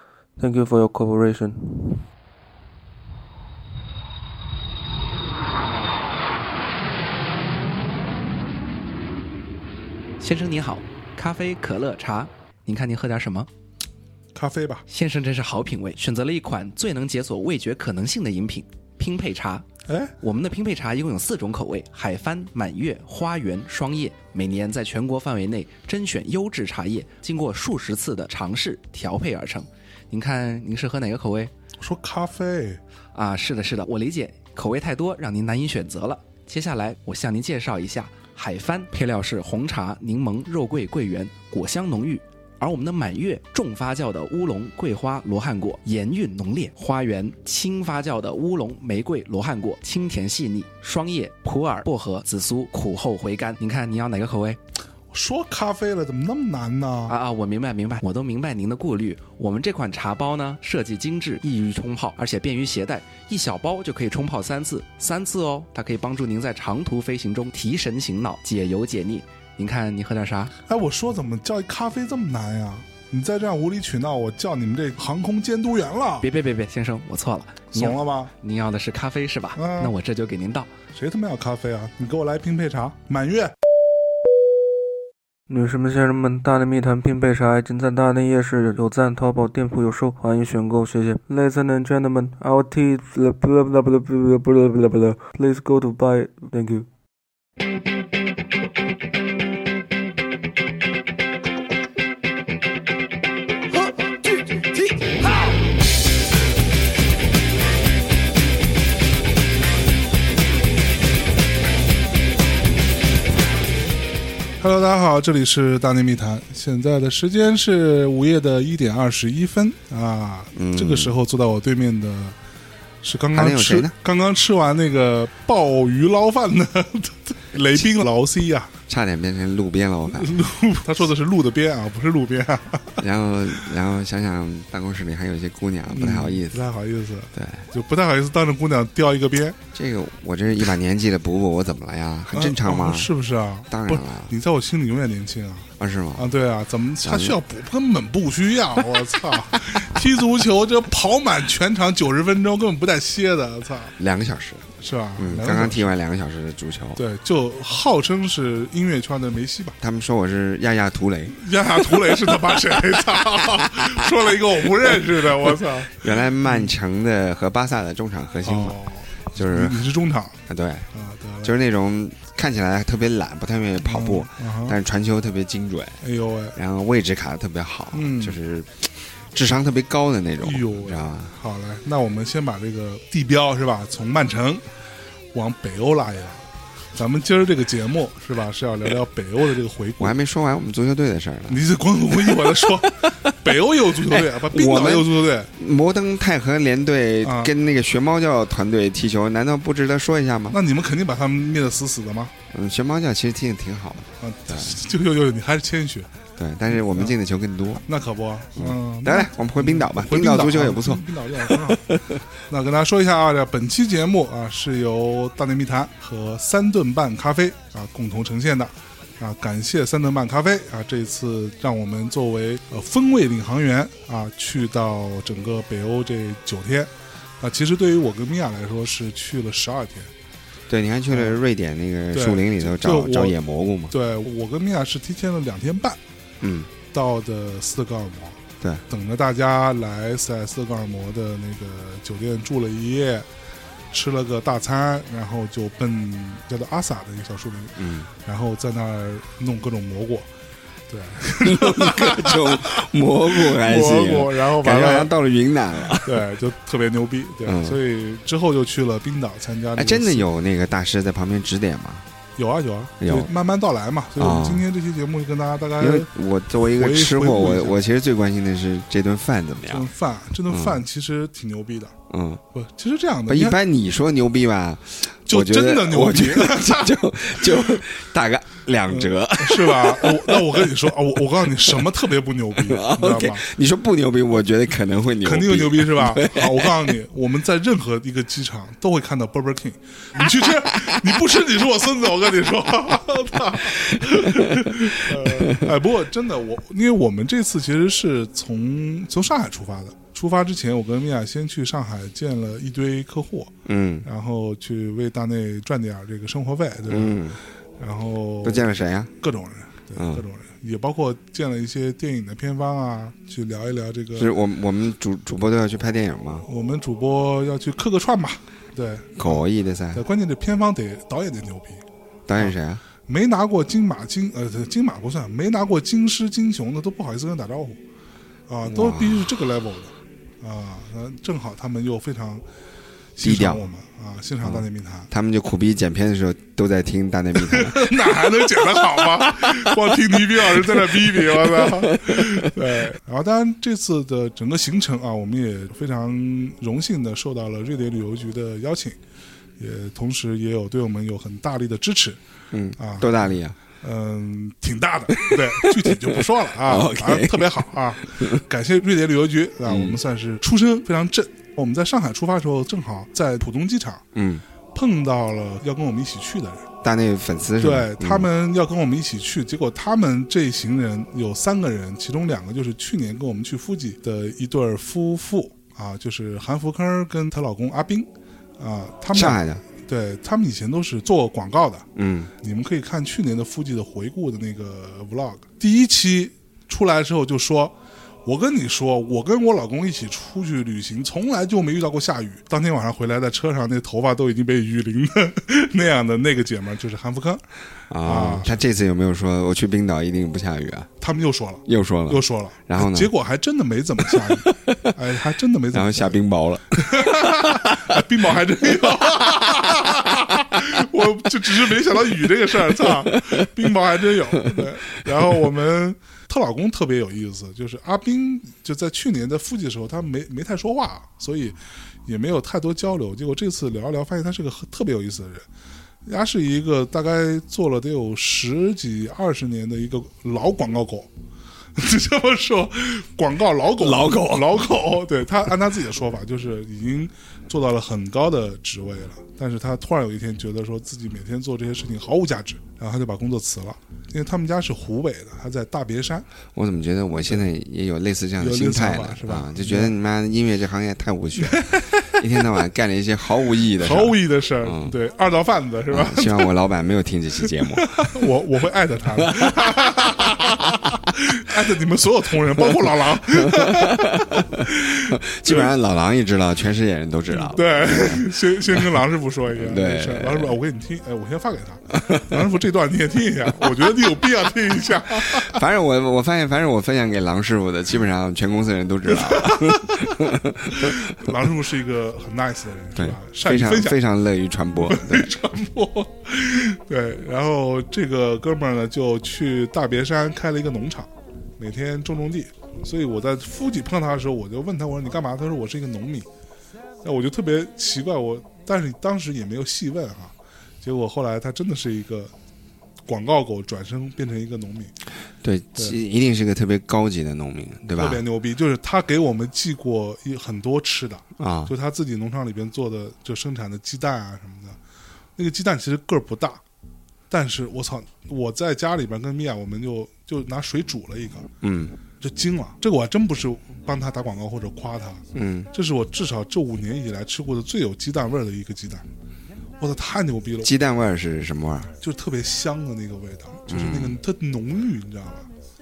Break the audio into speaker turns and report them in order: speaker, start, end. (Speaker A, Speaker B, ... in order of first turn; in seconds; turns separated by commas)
Speaker A: 0.4-2.0, Speaker B: 10.2-13.5, Speaker C: 14.3-14.8, Speaker B: 14.9-19.7, Speaker C: 19.9-20.1, Speaker B: 20.2-31.5, Speaker C: 31.8-32.8, Speaker B: 33.1-54.6, Speaker C: 55.1-57.1, Speaker B: 57.1-70.5, Speaker C: 70.7-76.3, Speaker B: 76.2-80.7, Speaker C: 77.7-78.3, Speaker C: 79.6-79.9, Speaker C: 81.0-83.5, Speaker A: 85.5-96.9, Speaker C: 114.6-122.4, Speaker D: 120.5-121.2, Speaker C: 123.0-128.7, Speaker D: 123.3-123.9, Speaker D: 128.9-130.4, Speaker C: 130.1-133.0, Speaker D: 133.0-136.6, Speaker C: 135.9-139.6, Speaker D: 137.3-137.7, Speaker D: 139.7-143.1, Speaker C: 142.3-153.9, Speaker D: 143.7-144.3, Speaker D: 145.8-146.3, Speaker D: 147.0-147.4, Speaker D: 154.0-157.0, Speaker C: 154.8-155.9, Speaker C: 157.0-159.8, Speaker D: 159.8-163.9, Speaker C: 161.3-166.7, Speaker D: 165.9-168.8, Speaker C: 168.4-170.4, Speaker D: 169.3-169.9, Speaker D: 170.5-170.9, Speaker C: 170.9-171.5, Speaker D: 171.4-176.0, Speaker C: 173.8-174.8, Speaker C: 176.0-176.6, Speaker D: 176.6-181.3, Speaker C: 177.9-178.4, Speaker C: 180.4-184.6, Speaker C: 185.3-186.4, Speaker C: 186.9-190.2, Speaker D: 190.0-191.6, Speaker C: 191.5-195.5, Speaker D: 192.3-193.1, Speaker D: 194.1-200.6, Speaker C: 197.2-197.5, Speaker C: 200.5-202.3, Speaker D: 202.5-204.8, Speaker C: 204.2-206.1, Speaker D: 206.4-207.8, Speaker C: 206.9-207.2, Speaker C: 207.8-211.9, Speaker D: 208.6-212.2, Speaker C: 212.5-230.1, Speaker D: 230.7-233.9, Speaker C: 231.1-231.4, Speaker C: 232.1-233.3, Speaker C: 233.9-236.0, Speaker D: 236.4-236.7, Speaker C: 236.9-243.3, Speaker C: 243.9-250.3, Speaker D: 247.8-248.1, Speaker C: 250.9-255.1, Speaker D: 251.4-256.3, Speaker C: 256.0-260.3, Speaker D: 257.4-257.8, Speaker D: 259.8-262.1, Speaker C: 262.4-266.1, Speaker D: 263.0-263.3, Speaker D: 264.2-264.7, Speaker D: 265.8-269.9, Speaker C: 266.7-267.8, Speaker C: 269.7-271.9, Speaker D: 270.5-270.8, Speaker D: 272.1-272.4, Speaker C: 272.5-273.6, Speaker D: 273.3-280.9, Speaker C: 275.3-277.4, Speaker C: 278.9-283.5, Speaker D: 281.5-281.8, Speaker D: 282.6-287.0, Speaker C: 285.2-307.2, Speaker D: 293.8-295.7, Speaker D: 303.6-304.1, Speaker D: 306.9-307.4, Speaker C: 307.8-308.7, Speaker D: 308.4-309.1, Speaker C: 309.2-314.3, Speaker D: 310.0-310.2, Speaker D: 314.2-316.4, Speaker C: 316.5-321.8, Speaker D: 319.2-320.0, Speaker D: 322.3-322.8, Speaker C: 323.1-327.8, Speaker C: 328.5-332.4, Speaker D: 328.7-329.3, Speaker C: 333.2-335.1, Speaker D: 333.2-333.7, Speaker D: 334.4-342.5, Speaker C: 337.4-349.0, Speaker C: 349.6-352.2, Speaker D: 352.5-353.6, Speaker C: 352.8-353.3, Speaker C: 353.8-364.0, Speaker D: 355.1-358.4, Speaker D: 359.6-360.0, Speaker D: 364.1-364.4, Speaker C: 364.7-366.7, Speaker D: 366.8-368.3, Speaker C: 367.6-381.9, Speaker D: 379.1-379.6, Speaker D: 381.9-382.3, Speaker C: 382.4-387.7, Speaker C: 388.3-397.4, Speaker D: 397.9-400.9, Speaker C: 398.0-398.6, Speaker C: 401.0-406.2, Speaker D: 401.6-403.1, Speaker D: 404.1-404.9, Speaker D: 405.7-407.8, Speaker C: 406.7-425.5, Speaker D: 408.9-410.0, Speaker D: 412.7-413.5, Speaker C: 426.1-431.1, Speaker C: 431.8-446.3, Speaker D: 433.8-434.7, Speaker D: 446.5-455.0, Speaker C: 448.4-449.9, Speaker C: 451.4-452.2, Speaker C: 453.8-456.5, Speaker D: 455.9-458.2, Speaker C: 457.8-465.7, Speaker D: 459.3-460.3, Speaker D: 463.3-470.6, Speaker C: 467.3-475.6, Speaker D: 472.1-472.4, Speaker D: 475.3-481.4, Speaker C: 479.1-484.0, Speaker D: 482.9-485.3, Speaker C: 484.9-496.3, Speaker C: 497.0-502.3, Speaker C: 503.1-504.9, Speaker D: 505.4-508.2, Speaker C: 508.0-514.8, Speaker D: 511.4-511.7, Speaker C: 515.4-516.6, Speaker C: 517.3-521.5, Speaker D: 521.6-522.0, Speaker C: 522.2-529.0, Speaker D: 525.3-525.7, Speaker C: 529.8-530.7, Speaker D: 530.6-531.9, Speaker C: 532.0-535.5, Speaker D: 533.7-534.2